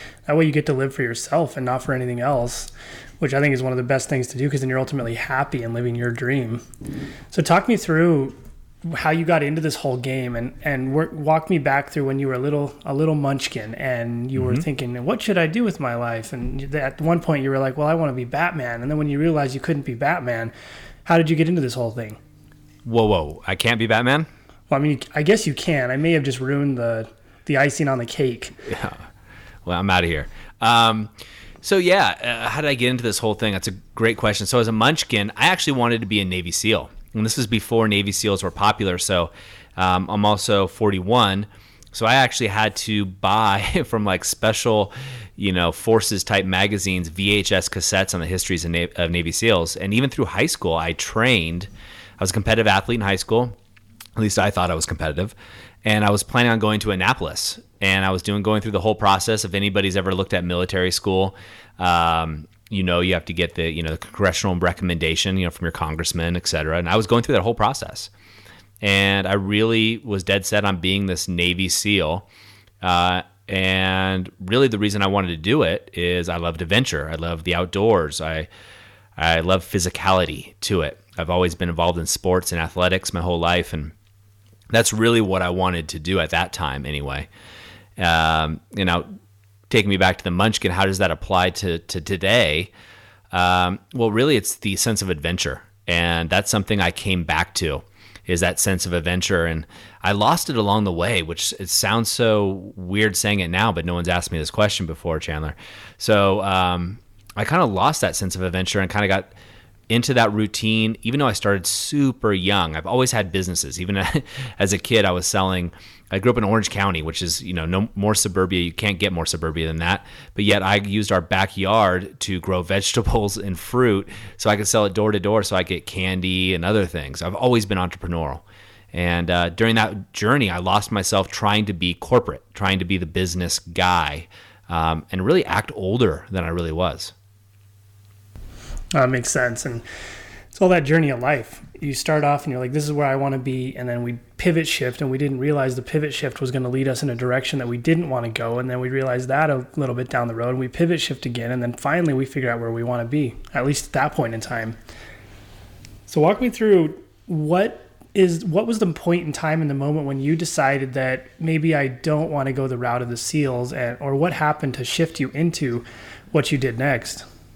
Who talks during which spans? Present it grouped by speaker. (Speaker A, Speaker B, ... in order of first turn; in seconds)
Speaker A: 0.3-6.6, 7.3-20.5, 21.1-22.2, 24.7-28.5, 138.9-139.8, 140.5-154.8, 156.1-167.2
Speaker B: 14.3-14.6, 22.8-24.3, 28.7-29.0, 29.6-31.1, 31.6-53.5, 54.1-68.1, 68.8-72.2, 72.8-78.5, 79.2-83.9, 84.7-87.3, 88.0-89.1, 89.7-92.7, 93.3-109.3, 109.9-137.1